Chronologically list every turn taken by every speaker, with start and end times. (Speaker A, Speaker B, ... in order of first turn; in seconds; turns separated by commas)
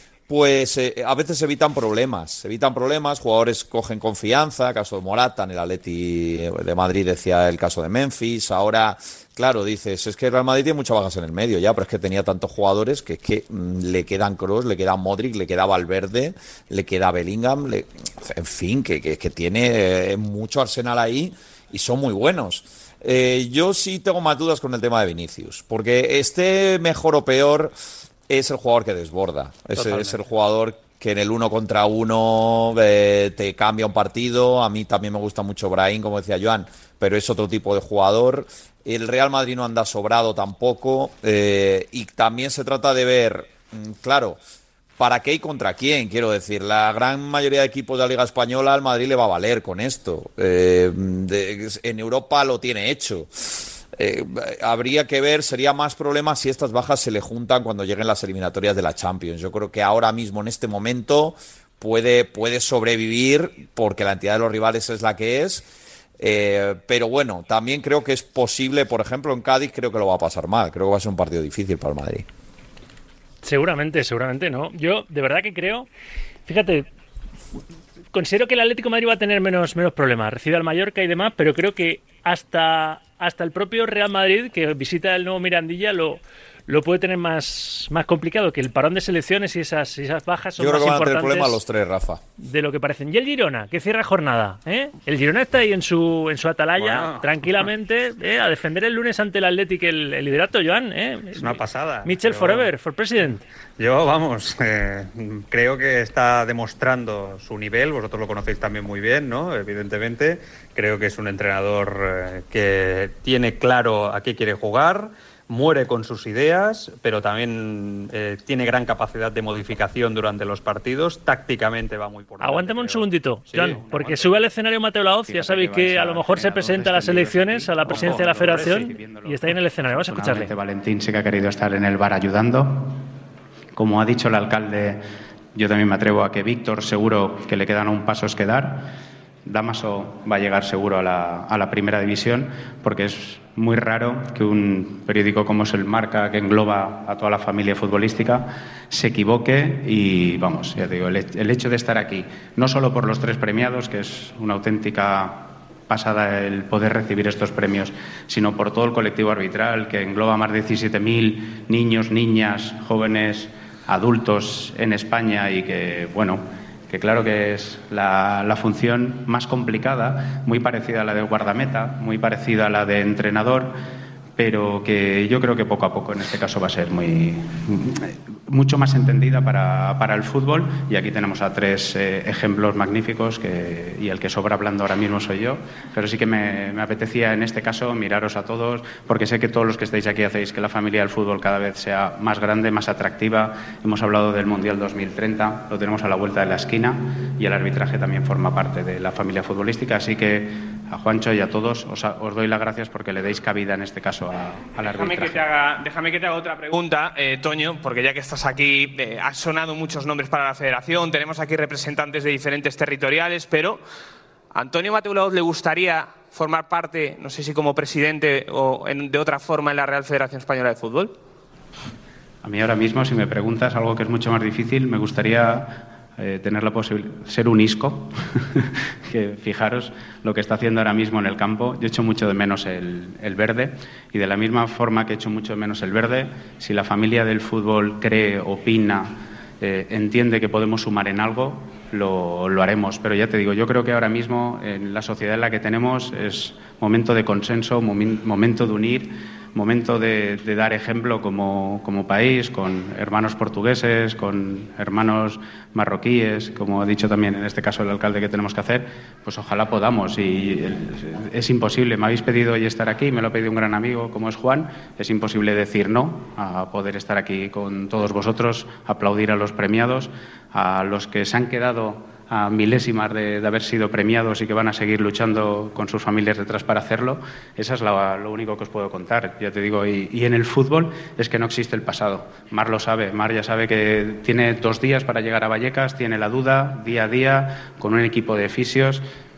Speaker A: 0.3-27.7, Speaker A: 28.3-44.4, Speaker B: 29.8-30.2, Speaker A: 45.0-65.7, Speaker A: 66.2-72.3, Speaker C: 73.4-75.9, Speaker C: 76.5-76.9, Speaker C: 78.1-91.6, Speaker A: 90.6-92.2, Speaker C: 92.4-103.4, Speaker B: 96.8-97.6, Speaker B: 101.3-102.7, Speaker B: 103.8-123.8, Speaker C: 122.4-130.5, Speaker D: 123.6-124.4, Speaker D: 125.3-133.0, Speaker B: 128.0-128.8, Speaker D: 133.8-135.0, Speaker D: 135.6-138.9, Speaker D: 139.5-173.7, Speaker D: 174.4-205.4, Speaker E: 204.8-213.8, Speaker E: 214.5-221.1, Speaker D: 222.4-289.0